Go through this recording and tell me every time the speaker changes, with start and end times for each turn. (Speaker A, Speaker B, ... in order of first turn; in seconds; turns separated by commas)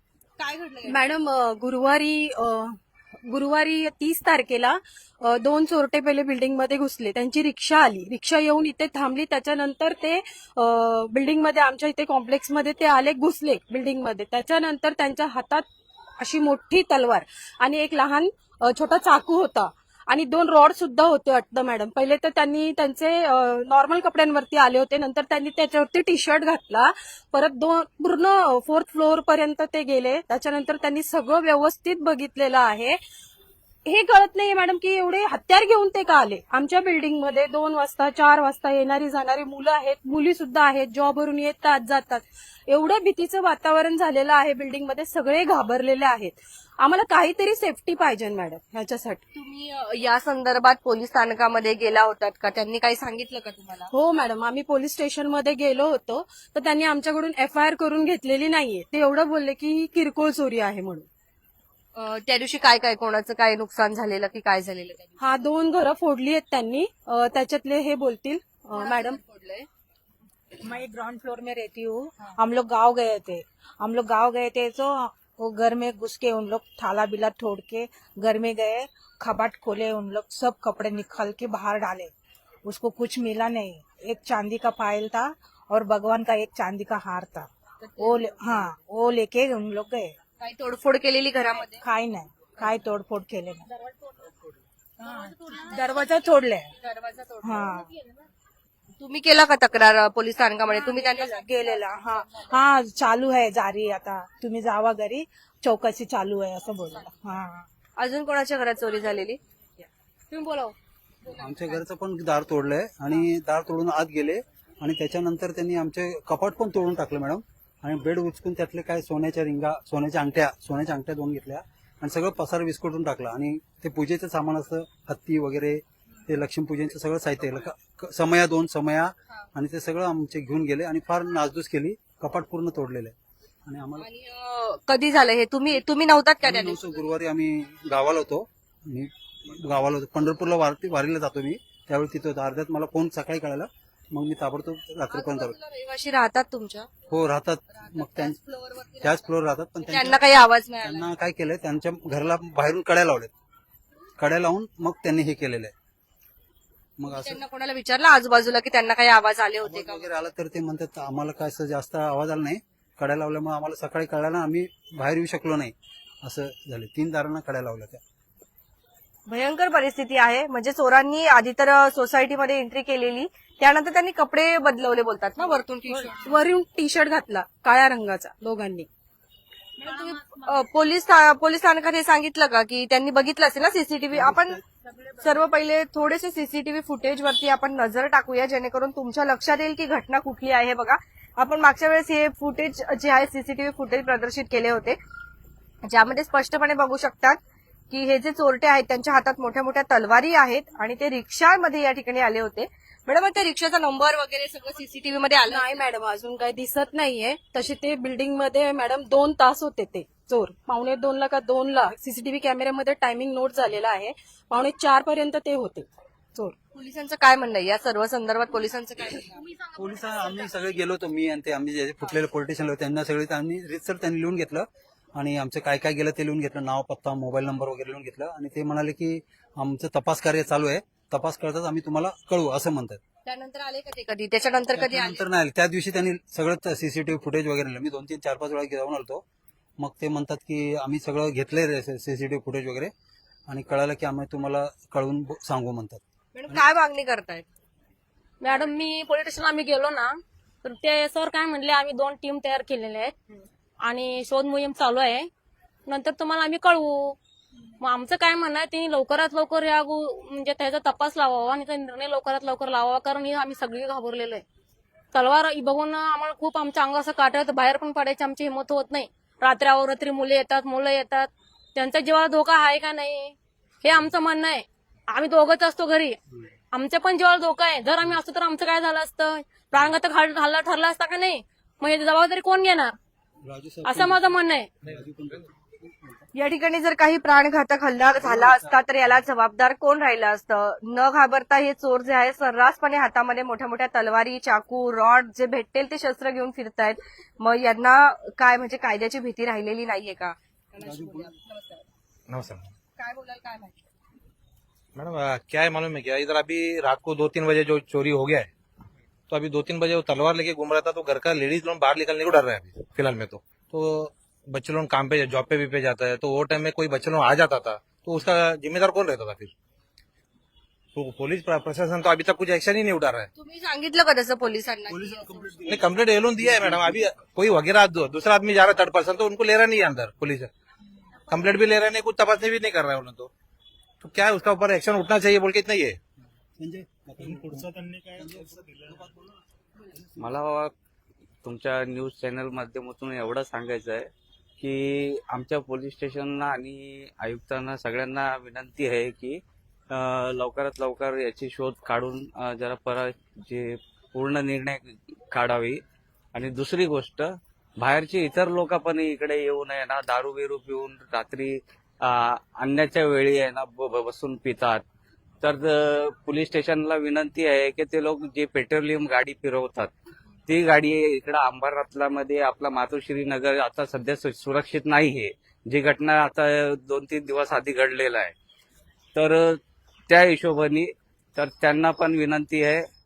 Speaker A: 0.4-1.0, Speaker B: 0.8-15.6, Speaker B: 16.2-33.0, Speaker B: 33.9-49.2, Speaker A: 49.3-53.9, Speaker B: 53.9-61.1, Speaker A: 61.9-65.1, Speaker B: 65.2-69.2, Speaker A: 68.7-69.7, Speaker C: 70.6-82.1, Speaker C: 82.6-87.5, Speaker A: 87.8-88.7, Speaker C: 88.0-90.2, Speaker A: 90.4-91.8, Speaker C: 91.8-93.6, Speaker D: 93.7-94.2, Speaker C: 95.0-96.7, Speaker D: 95.2-96.0, Speaker A: 96.8-97.7, Speaker C: 97.4-97.9, Speaker D: 97.9-98.2, Speaker A: 99.0-102.3, Speaker C: 100.7-107.7, Speaker A: 108.0-109.4, Speaker D: 110.3-110.7, Speaker E: 111.3-133.1, Speaker E: 133.7-134.1, Speaker A: 134.0-137.0, Speaker E: 136.4-145.6, Speaker A: 145.1-146.9, Speaker E: 147.1-148.4, Speaker A: 147.7-149.3, Speaker E: 149.0-150.2, Speaker A: 149.8-151.1, Speaker E: 150.8-153.3, Speaker E: 154.2-155.7, Speaker E: 157.0-157.4, Speaker A: 157.1-160.1, Speaker E: 159.6-168.0, Speaker A: 169.3-176.2, Speaker B: 175.9-178.8, Speaker D: 179.8-180.6, Speaker A: 179.8-184.6, Speaker E: 184.1-184.6, Speaker A: 185.2-195.0, Speaker A: 195.8-197.4, Speaker A: 197.9-205.8, Speaker B: 205.5-215.9, Speaker A: 216.6-219.4, Speaker D: 219.1-220.7, Speaker E: 219.8-233.0, Speaker A: 233.2-235.2, Speaker E: 234.7-239.2, Speaker E: 239.8-242.9, Speaker E: 243.5-246.6, Speaker A: 246.3-247.5, Speaker D: 248.4-253.1, Speaker D: 253.8-255.3, Speaker D: 255.9-257.2, Speaker D: 257.8-264.4, Speaker D: 265.1-276.2, Speaker D: 276.7-282.9, Speaker E: 283.4-286.3, Speaker D: 283.8-284.7, Speaker A: 286.3-301.9, Speaker E: 288.2-288.8, Speaker E: 300.8-301.3, Speaker F: 302.3-302.7, Speaker A: 303.0-303.8, Speaker F: 304.9-308.5, Speaker F: 309.3-319.5, Speaker F: 320.9-323.3, Speaker A: 323.3-325.6, Speaker E: 324.9-327.1, Speaker F: 325.7-330.5, Speaker F: 331.3-333.3, Speaker F: 334.0-336.0, Speaker E: 336.6-339.4, Speaker F: 337.2-338.9, Speaker G: 340.2-340.7, Speaker G: 341.4-355.8, Speaker G: 356.3-364.8, Speaker G: 365.4-369.9, Speaker G: 370.5-378.3, Speaker G: 379.1-382.8